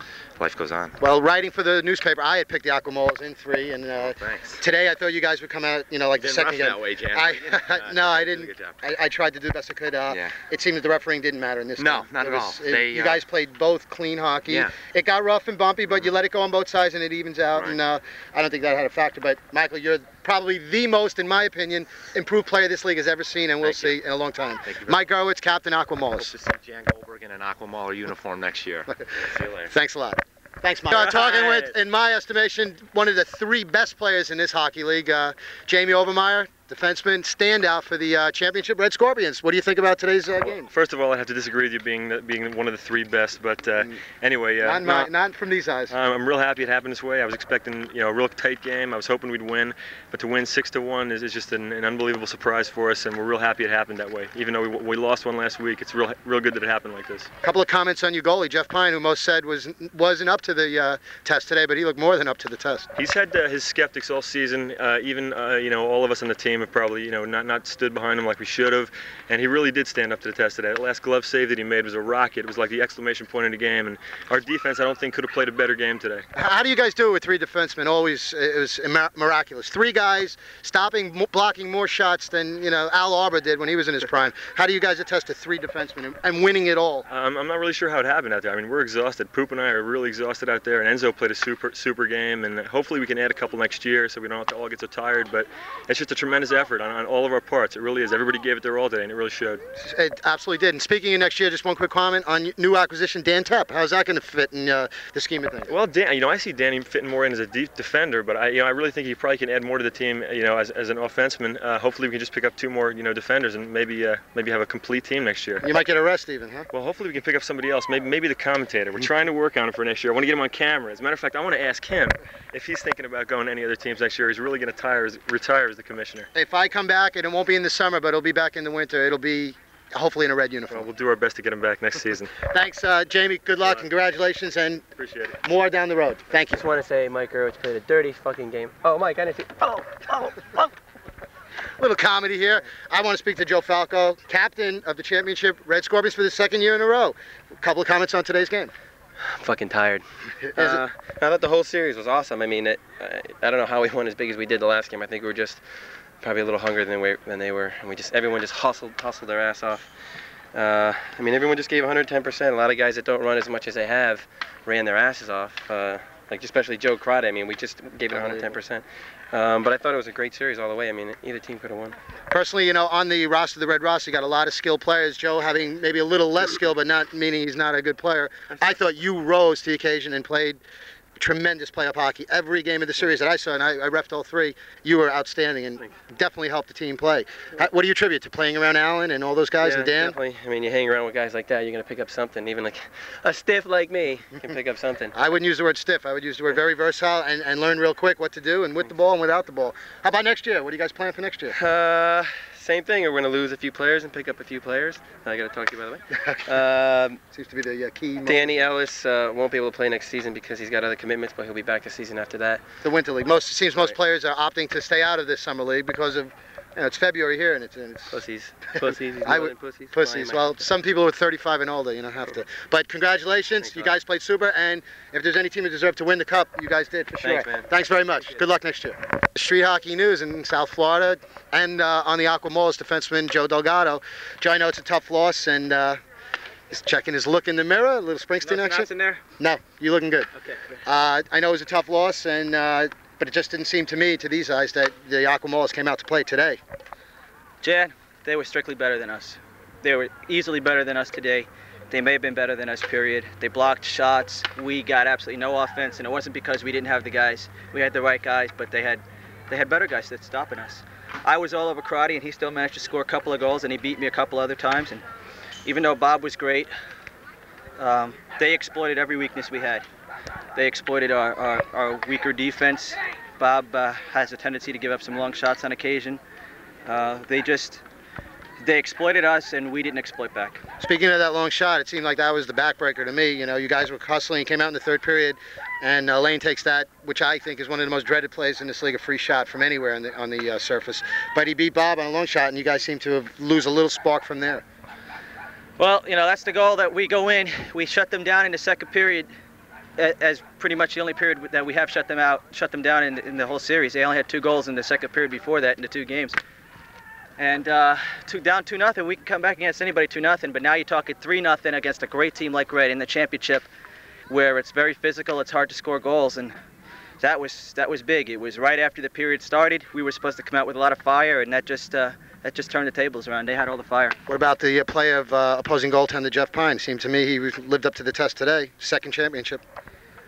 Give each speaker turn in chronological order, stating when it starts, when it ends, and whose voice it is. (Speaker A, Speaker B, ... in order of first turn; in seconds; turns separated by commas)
Speaker A: 0.4-0.9, Speaker B: 1.0-26.3, Speaker A: 4.0-4.6, Speaker A: 6.2-8.8, Speaker A: 10.1-10.3, Speaker A: 11.8-13.2, Speaker A: 14.5-14.7, Speaker A: 23.6-24.0, Speaker A: 24.6-25.1, Speaker A: 26.2-29.7, Speaker B: 28.9-40.7, Speaker A: 31.0-31.7, Speaker C: 40.7-45.1, Speaker B: 44.6-45.9, Speaker C: 45.9-57.3, Speaker B: 57.4-62.9, Speaker C: 63.0-76.2, Speaker B: 76.3-87.0, Speaker C: 87.1-99.6, Speaker B: 99.8-105.7, Speaker C: 105.7-115.6, Speaker B: 115.6-116.7, Speaker C: 116.7-126.3, Speaker B: 126.3-130.9, Speaker C: 130.7-132.3, Speaker B: 132.4-134.8, Speaker C: 135.0-135.4, Speaker B: 135.4-136.6, Speaker D: 136.5-140.7, Speaker B: 141.8-148.7, Speaker D: 149.2-150.0, Speaker B: 150.4-150.8, Speaker D: 150.6-155.6, Speaker D: 156.2-159.9, Speaker D: 160.5-171.9, Speaker B: 168.1-168.5, Speaker B: 172.3-180.6, Speaker B: 181.2-190.2, Speaker D: 189.6-195.1, Speaker B: 195.1-201.6, Speaker D: 201.5-207.2, Speaker B: 206.1-206.5, Speaker B: 207.3-208.7, Speaker D: 208.3-212.6, Speaker B: 212.8-218.2, Speaker D: 218.1-220.4, Speaker B: 218.8-236.0, Speaker D: 223.6-223.9, Speaker D: 227.2-227.7, Speaker B: 236.7-240.3, Speaker E: 238.4-239.2, Speaker E: 240.3-240.8, Speaker B: 240.8-246.6, Speaker E: 247.6-265.0, Speaker E: 265.6-266.7, Speaker E: 267.8-269.8, Speaker E: 270.5-276.2, Speaker E: 276.9-277.8, Speaker E: 278.6-280.6, Speaker B: 280.8-294.6, Speaker E: 295.8-299.3, Speaker E: 300.0-306.4, Speaker E: 307.4-313.6, Speaker E: 314.3-316.6, Speaker E: 317.2-324.2, Speaker B: 324.3-329.6